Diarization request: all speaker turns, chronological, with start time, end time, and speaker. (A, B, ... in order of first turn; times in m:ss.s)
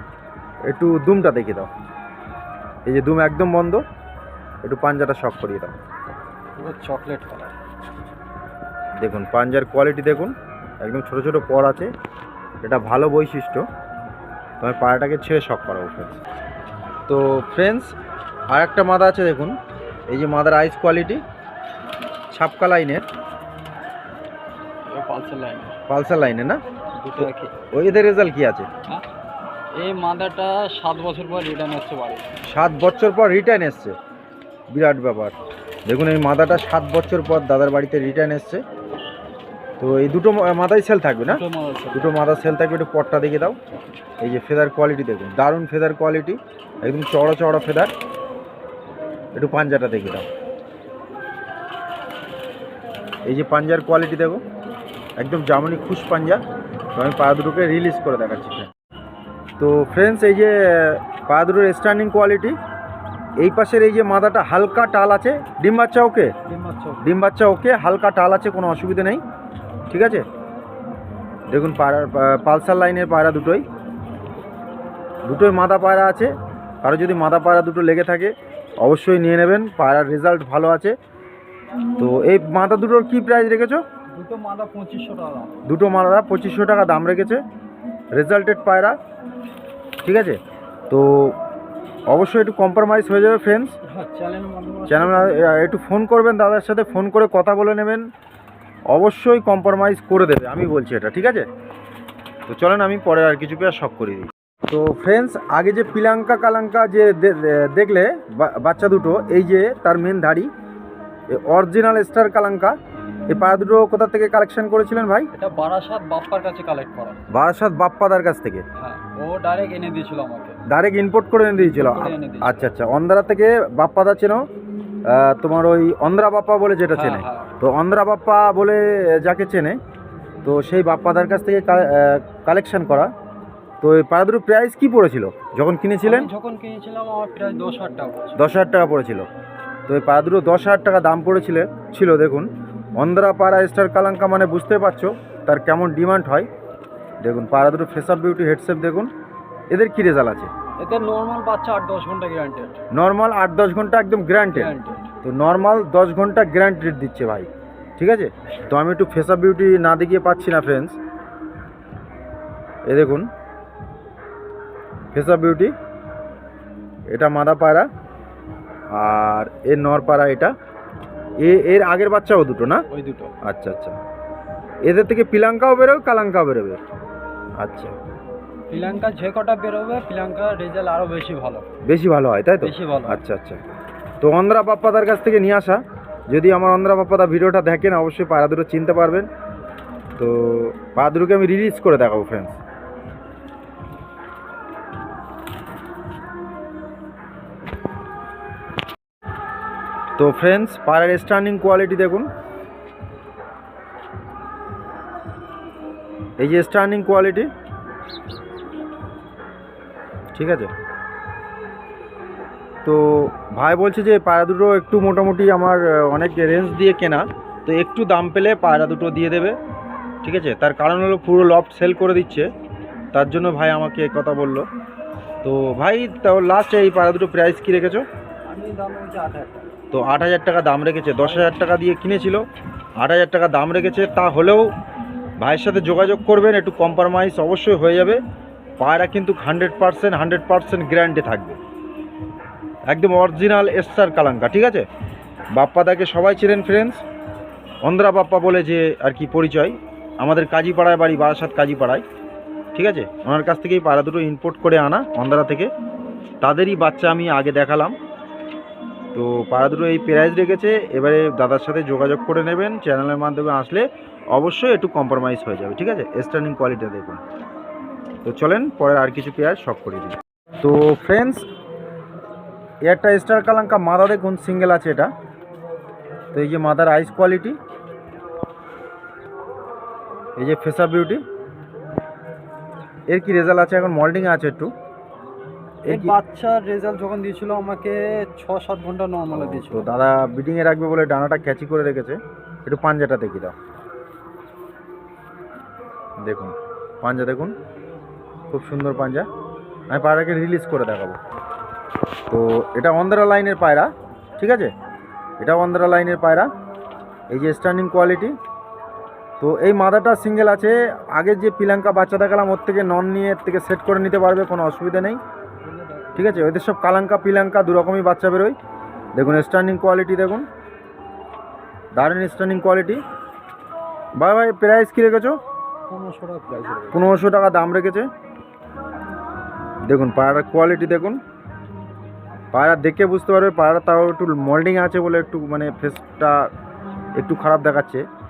0:00.7-0:01.7 A
0:02.9-0:03.8 A
0:04.6-0:05.8 A
0:06.6-0:07.5 B
0:09.0-0:11.9 A
0:12.6-0:13.6 A
0:14.6-0:16.2 A
0:17.1-0:17.9 A
0:18.5-0:19.6 A
0:20.1-0:21.2 A
0:22.3-0:23.0 A
0:24.9-0:25.8 B
0:25.9-0:26.6 A
0:27.0-0:27.5 B
0:27.2-0:28.7 A
0:29.8-0:32.3 B
0:32.4-0:34.0 A
0:34.7-0:35.4 A
0:35.9-0:38.6 A
0:39.8-0:41.4 A
0:41.2-0:42.2 B
0:41.9-0:43.6 A
0:44.2-0:47.9 A
0:49.4-0:50.3 A
0:53.2-0:54.4 A
0:55.2-0:56.4 A
0:57.0-0:58.7 A
0:59.6-1:02.6 A
1:03.4-1:06.3 A
1:06.4-1:07.0 B
1:07.0-1:09.2 A
1:09.9-1:10.2 A
1:11.5-1:13.6 A
1:15.3-1:16.3 A
1:16.8-1:20.9 A
1:22.0-1:23.8 A
1:24.1-1:25.6 B
1:25.6-1:27.4 A
1:28.1-1:29.0 A
1:30.0-1:30.4 A
1:30.9-1:31.4 A
1:32.1-1:33.8 A
1:33.8-1:35.4 B
1:34.9-1:38.1 A
1:38.9-1:41.5 A
1:42.5-1:50.5 A
1:51.3-1:52.8 A
1:53.3-1:55.3 A
1:55.3-1:57.2 B
1:57.3-1:58.6 A
1:58.8-2:00.6 B
2:00.7-2:04.4 A
2:01.6-2:02.7 B
2:05.0-2:09.8 A
2:06.9-2:07.5 B
2:10.4-2:13.1 A
2:13.8-2:16.3 A
2:16.0-2:18.4 B
2:18.4-2:19.2 A
2:19.9-2:26.5 A
2:27.2-2:29.1 A
2:29.7-2:30.5 A
2:30.8-2:32.8 B
2:32.9-2:34.7 A
2:34.5-2:35.1 B
2:35.2-2:41.0 A
2:42.9-2:43.3 A
2:45.1-2:45.7 A
2:47.1-2:47.9 A
2:48.9-2:50.5 A
2:51.4-2:52.9 A
2:52.9-2:53.3 B
2:53.4-2:54.0 A
2:54.8-2:56.8 A
2:57.6-2:58.0 A
2:58.7-3:01.7 B
3:01.9-3:03.6 A
3:02.6-3:03.2 B
3:04.2-3:09.3 A
3:10.2-3:12.6 A
3:20.2-3:22.3 A
3:26.4-3:27.5 A
3:30.4-3:30.7 A
3:32.8-3:39.6 A
3:40.2-3:42.5 A
3:43.1-3:44.6 A
3:45.4-3:48.0 A
3:48.5-3:49.7 B
3:49.9-3:52.4 A
3:51.2-3:51.6 B
3:53.0-3:54.7 A
3:55.4-3:58.2 A
3:58.8-4:01.6 A
4:02.9-4:04.9 A
4:05.6-4:07.0 A
4:07.8-4:12.0 A
4:12.7-4:15.7 A
4:16.4-4:18.0 A
4:19.1-4:27.2 A
4:28.2-4:31.4 A
4:32.8-4:35.1 A
4:36.3-4:37.6 A
4:40.4-4:41.2 A
4:43.1-4:44.7 A
4:45.9-4:46.2 A
4:45.9-4:50.0 B
4:49.3-4:53.5 A
4:56.2-4:57.5 A
4:58.5-4:59.3 A
4:59.9-5:01.2 A
5:02.3-5:04.7 A
5:05.4-5:06.5 A
5:07.3-5:08.4 A
5:09.4-5:15.2 A
5:15.6-5:16.6 B
5:16.2-5:18.6 A
5:19.2-5:20.5 A
5:22.0-5:23.0 A
5:24.2-5:25.4 A
5:25.9-5:27.2 B
5:26.9-5:28.1 A
5:29.9-5:31.2 A
5:32.5-5:36.5 A
5:37.2-5:38.0 A